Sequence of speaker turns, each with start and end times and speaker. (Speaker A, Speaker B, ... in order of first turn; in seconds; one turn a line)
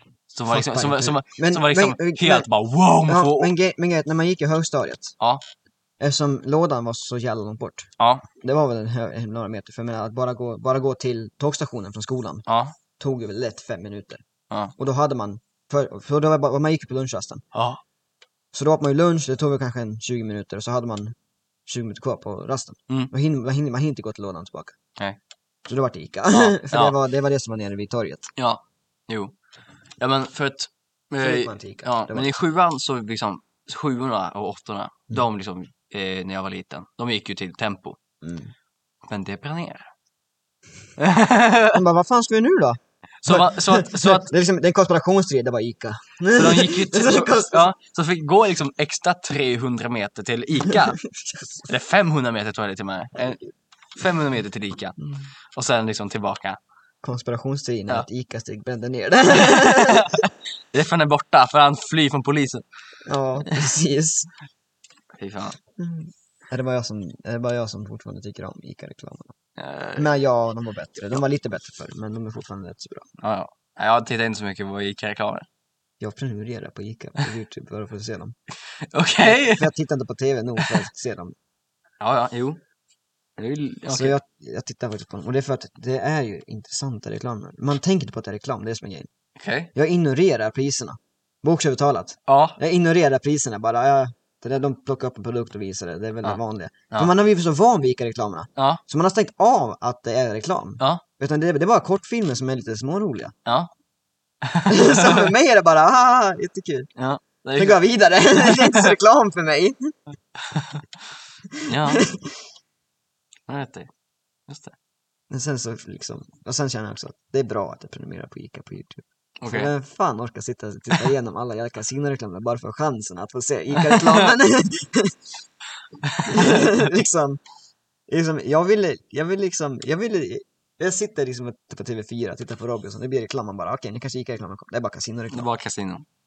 Speaker A: 0.3-3.5
Speaker B: 0.5-2.5
Speaker B: 3.1-5.2
Speaker B: 6.0-12.4
Speaker A: 8.0-8.2
Speaker A: 12.5-12.8
Speaker B: 13.0-14.2
Speaker B: 14.8-17.4
Speaker A: 17.5-17.8
Speaker B: 18.5-21.2
Speaker B: 21.7-24.8
Speaker B: 25.7-28.3
Speaker A: 26.3-27.0
Speaker A: 28.4-29.4
Speaker A: 30.0-38.0
Speaker B: 31.2-32.4
Speaker B: 38.2-38.5
Speaker A: 39.0-39.9
Speaker A: 41.0-41.8
Speaker B: 41.7-47.7
Speaker A: 43.2-44.3
Speaker A: 46.3-51.0
Speaker B: 50.6-51.7
Speaker A: 51.7-53.4
Speaker A: 53.9-55.0
Speaker B: 55.0-55.3
Speaker A: 55.5-56.6
Speaker B: 57.0-60.2
Speaker A: 59.4-62.6
Speaker B: 63.1-64.3
Speaker A: 65.2-65.6
Speaker B: 65.8-69.3
Speaker A: 69.6-70.1
Speaker B: 70.0-73.1
Speaker A: 73.2-75.5
Speaker B: 76.0-78.3
Speaker A: 78.8-79.7
Speaker B: 79.2-81.3
Speaker A: 82.0-82.6
Speaker A: 83.4-84.2
Speaker B: 83.9-89.1
Speaker A: 89.4-89.7
Speaker B: 89.7-103.3
Speaker A: 92.3-92.6
Speaker A: 98.6-98.8
Speaker A: 103.5-103.7
Speaker A: 104.4-105.3
Speaker B: 104.7-106.9
Speaker A: 107.0-107.8
Speaker B: 107.6-110.0
Speaker A: 108.3-108.9
Speaker A: 110.4-110.8
Speaker B: 111.5-112.5
Speaker A: 111.7-112.0
Speaker A: 113.5-113.9
Speaker A: 114.5-114.8
Speaker B: 115.3-125.2
Speaker A: 119.4-119.7
Speaker A: 123.8-124.3
Speaker A: 126.0-126.7
Speaker B: 126.2-127.4
Speaker B: 128.1-135.5
Speaker A: 135.3-136.1